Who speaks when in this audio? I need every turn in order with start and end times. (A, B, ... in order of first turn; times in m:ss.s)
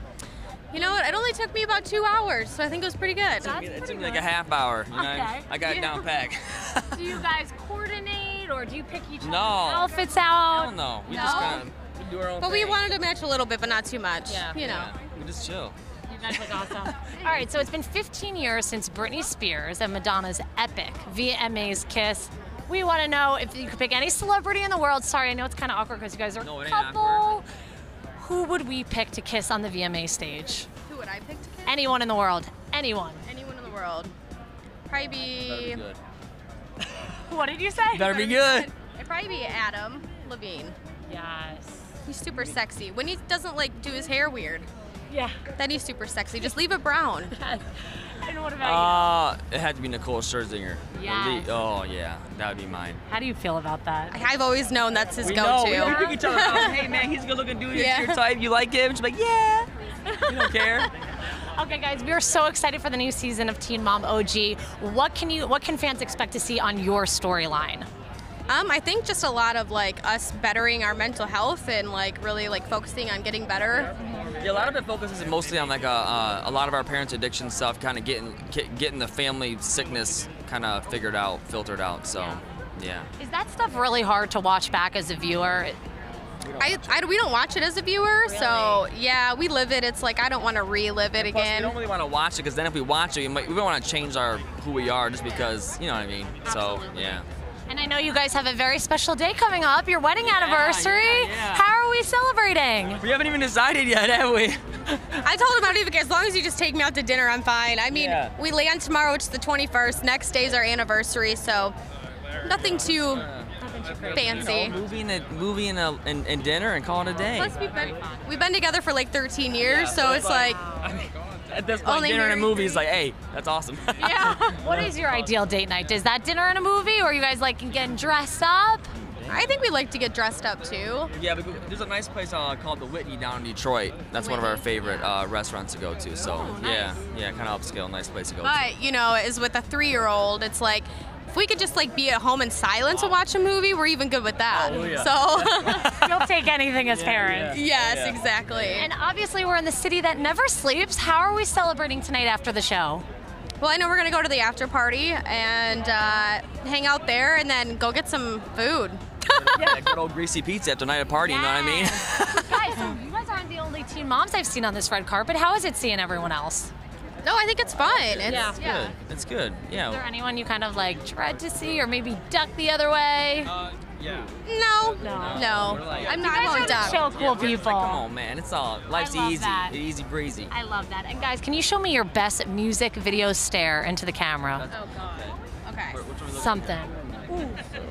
0:00.7-0:03.6 A
0:03.4-0:04.3 B
0:03.4-0:07.2 C
0:04.9-0:06.1 B
0:06.9-0:11.6 B
0:09.2-0:10.0 C
0:10.5-0:12.8 C
0:11.1-0:11.7 A
0:12.4-0:14.9 A
0:14.3-0:14.6 B
0:14.6-0:15.8 C
0:16.1-0:27.5 B
0:17.1-0:17.7 C
0:26.4-0:27.3 C
0:28.2-0:30.7 B
0:30.9-0:31.9 A
0:31.7-0:33.2 B
0:33.2-0:34.1 A
0:34.9-0:35.8 A
0:35.5-0:36.0 C
0:37.1-0:38.2 B
0:37.9-0:38.7 C
0:38.1-0:40.8 A
0:41.1-0:41.9 B
0:42.1-0:44.7 A
0:45.1-0:45.4 B
0:45.6-0:47.3 A
0:47.4-0:49.2 B
0:48.6-0:53.0 C
0:50.9-0:51.5 B
0:53.1-0:54.2 B
0:54.1-0:56.8 A
0:55.2-0:59.7 C
0:55.8-0:56.8 B
0:57.7-0:58.2 A
1:00.1-1:00.9 B
1:00.3-1:00.9 C
1:01.6-1:07.9 B
1:08.5-1:13.9 A
1:14.0-1:14.4 B
1:14.4-1:23.1 C
1:22.1-1:22.4 B
1:23.2-1:25.8 B
1:26.4-1:27.0 C
1:26.6-1:31.8 A
1:28.2-1:28.9 B
1:31.2-1:37.2 C
1:36.4-1:43.0 B
1:40.2-1:41.7 C
1:43.0-1:45.0 C
1:45.2-1:51.8 A
1:47.9-1:48.4 C
1:52.4-1:53.3 A
1:53.1-1:53.5 C
1:53.6-1:54.6 B
1:54.1-1:54.8 A
1:54.2-1:57.6 C
1:57.2-1:58.2 B
1:57.3-2:00.6 A
1:59.6-2:04.2 C
2:00.4-2:01.0 B
2:01.8-2:02.6 A
2:04.0-2:04.6 A
2:04.1-2:08.9 B
2:09.0-2:09.3 C
2:09.3-2:11.1 A
2:11.2-2:18.6 C
2:14.2-2:15.1 A
2:16.2-2:17.0 B
2:18.4-2:26.2 A
2:24.6-2:25.6 C
2:24.7-2:25.1 B
2:25.7-2:27.6 B
2:26.9-2:28.8 C
2:27.5-2:28.9 A
2:28.8-2:33.0 B
2:33.6-2:39.8 A
2:39.3-2:42.9 C
2:39.6-2:39.8 B
2:41.2-2:46.7 B
2:47.2-2:49.0 A
2:47.7-2:50.0 C
2:48.3-2:48.6 B
2:49.8-2:53.5 B
2:54.0-2:54.3 C
2:54.4-2:57.0 A
2:55.0-2:58.0 B
2:55.1-3:00.5 C
2:58.9-2:59.8 B
3:00.5-3:04.7 B
3:04.6-3:05.3 C
3:04.7-3:05.1 A
3:05.6-3:06.0 A
3:05.9-3:06.9 C
3:06.3-3:07.6 B